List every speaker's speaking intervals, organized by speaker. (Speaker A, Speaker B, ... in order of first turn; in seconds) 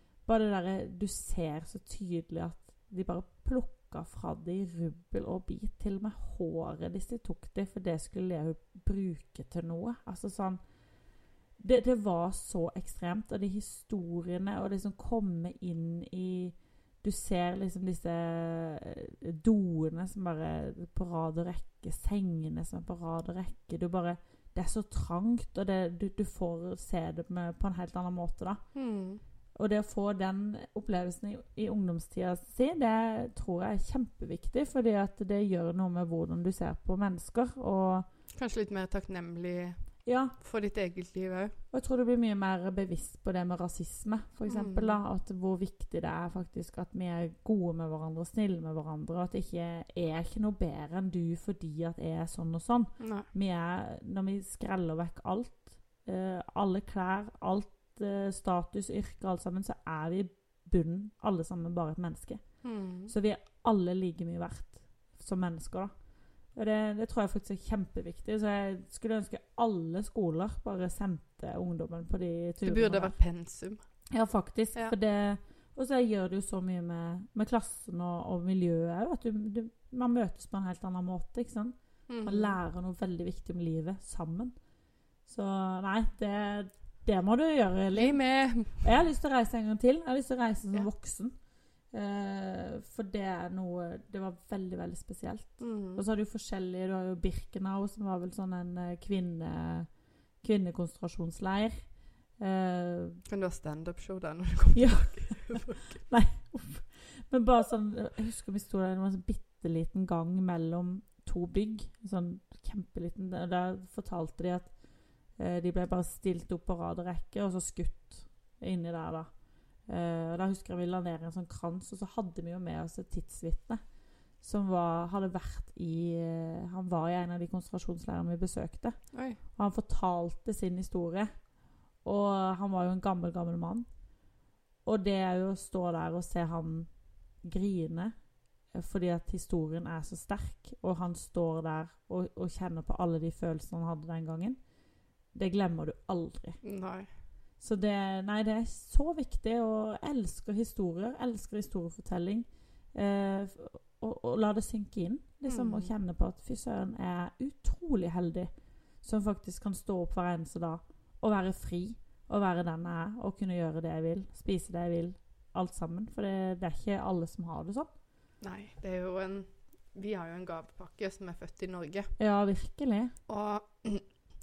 Speaker A: 0.2-10.6, 11.6-28.6, 29.6-38.1, 40.0-40.3, 41.7-62.4, 63.1-65.9, 66.5-73.2, 74.1-84.5, 85.3-88.2, 88.7-91.3, 91.9-99.9, 100.4-101.8, 102.4-103.2, 104.7-114.7, 115.4-119.3, 119.9-123.8, 124.4-129.0, 129.6-131.3, 132.0-133.9, 134.8-136.9, 137.4-138.1, 138.7-144.6, 145.3-146.6, 147.6-158.5, 159.0-167.9, 172.2-173.1
Speaker B: 28.7-29.2, 38.3-39.8, 40.4-41.5, 44.5-45.0, 53.0-53.3, 62.6-63.1, 72.6-73.8, 82.1-82.6, 87.9-88.8, 95.6-96.0, 103.3-106.0, 129.1-129.4, 146.6-147.1, 155.4-155.9, 168.4-172.1, 173.3-174.1